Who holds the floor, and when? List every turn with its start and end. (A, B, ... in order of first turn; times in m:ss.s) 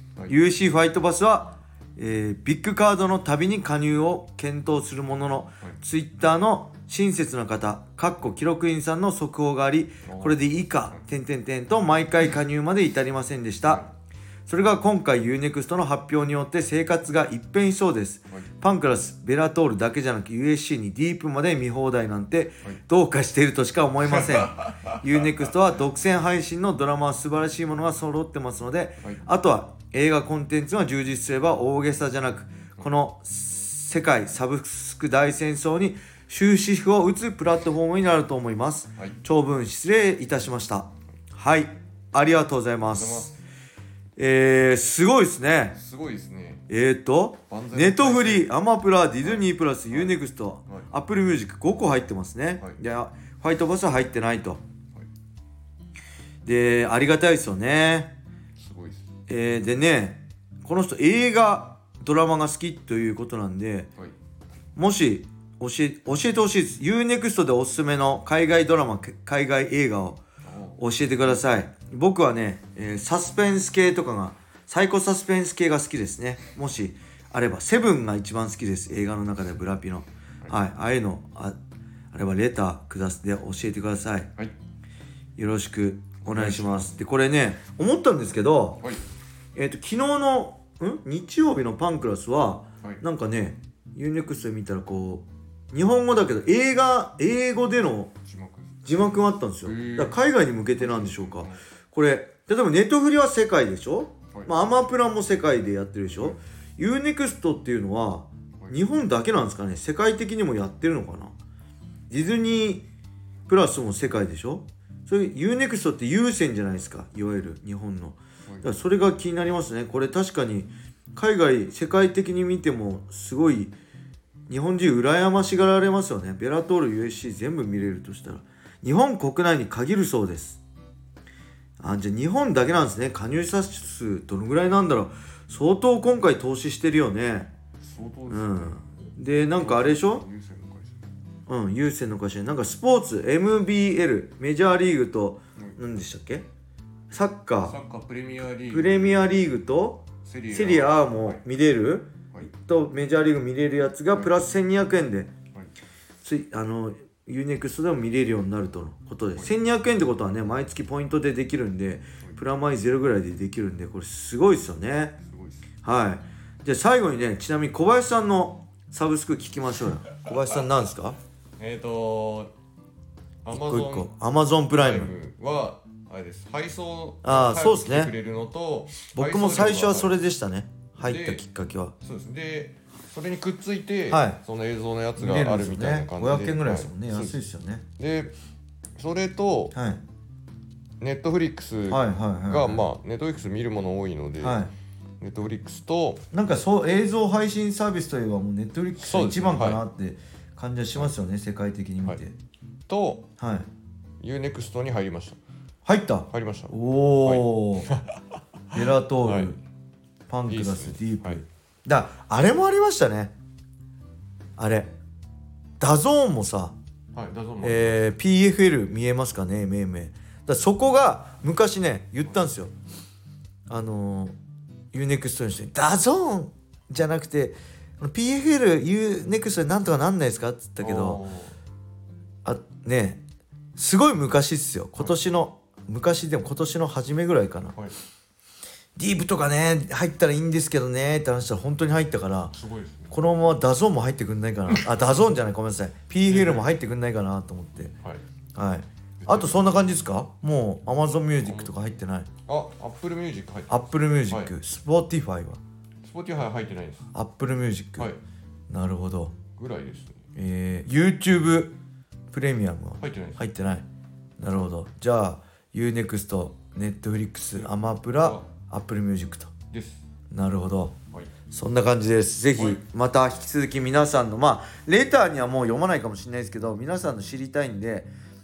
0:00.3-0:13.8 A
0:10.0-0:11.0 B
0:14.5-0:43.3 A
0:42.9-0:43.4 B
0:44.2-0:45.8 A
0:45.8-0:46.6 B
0:46.7-0:54.6 A
0:47.5-0:48.5 B
0:49.2-0:50.1 B
0:56.4-0:58.1 A
0:58.6-0:59.1 B
0:59.3-1:03.9 A
1:04.8-1:10.2 A
1:10.4-1:10.8 B
1:10.8-1:21.6 A
1:22.1-1:24.3 A
1:25.4-1:28.8 A
1:26.2-1:26.9 B
1:29.6-1:38.1 A
1:38.3-1:40.2 B
1:38.8-1:51.3 A
1:40.7-1:41.6 B
1:52.1-1:52.8 A
1:53.5-2:03.7 A
2:04.5-2:10.6 A
2:11.8-2:17.5 A
2:17.8-2:18.9 B
2:18.3-2:20.2 A
2:19.4-2:21.1 B
2:21.5-2:26.4 A
2:27.1-2:27.8 A
2:27.6-2:29.3 B
2:28.7-2:35.3 A
2:30.2-2:31.4 B
2:36.2-2:45.2 A
2:45.2-2:45.6 B
2:45.8-2:51.2 A
2:51.6-2:52.5 B
2:53.4-2:54.1 B
2:53.5-2:55.1 A
2:54.7-3:00.1 B
2:57.2-2:58.1 A
2:59.2-3:01.9 A
3:01.0-3:01.4 B
3:02.0-3:07.4 B
3:04.1-3:04.4 A
3:05.2-3:07.8 A
3:08.0-3:08.3 B
3:09.0-3:09.7 B
3:09.7-3:10.0 A
3:11.0-3:14.7 B
3:11.9-3:12.8 A
3:14.4-3:14.7 A
3:15.2-3:16.2 B
3:16.3-3:22.3 A
3:19.0-3:19.8 B
3:22.9-3:23.3 B
3:23.4-3:23.7 A
3:24.2-3:25.4 B
3:25.8-3:27.9 A
3:26.3-3:26.7 B
3:27.2-3:28.2 B
3:28.7-3:29.6 A
3:28.7-3:29.6 B
3:30.3-3:33.3 A
3:30.5-3:31.4 B
3:34.6-3:34.9 A
3:35.8-3:36.8 A
3:37.1-3:38.0 B
3:37.6-3:42.7 A
3:43.7-3:44.4 A
3:44.9-3:51.2 A
3:50.8-3:51.6 B
3:52.4-3:53.2 A
3:53.8-3:57.8 A
3:59.0-4:02.6 A
4:02.5-4:03.2 B
4:03.1-4:07.9 A
4:04.7-4:05.0 B
4:06.2-4:06.7 B
4:08.6-4:12.3 A
4:09.2-4:10.0 B
4:11.4-4:11.7 B
4:12.4-4:13.7 B
4:13.7-4:15.6 A
4:16.0-4:17.1 B
4:17.1-4:18.1 A
4:18.7-4:19.3 A
4:19.6-4:20.3 B
4:20.3-4:21.7 A
4:22.3-4:23.8 A
4:23.0-4:23.4 B
4:24.4-4:29.5 A
4:27.5-4:28.4 B
4:29.7-4:30.0 B
4:30.3-4:31.0 A
4:31.5-4:38.1 A
4:32.6-4:32.8 B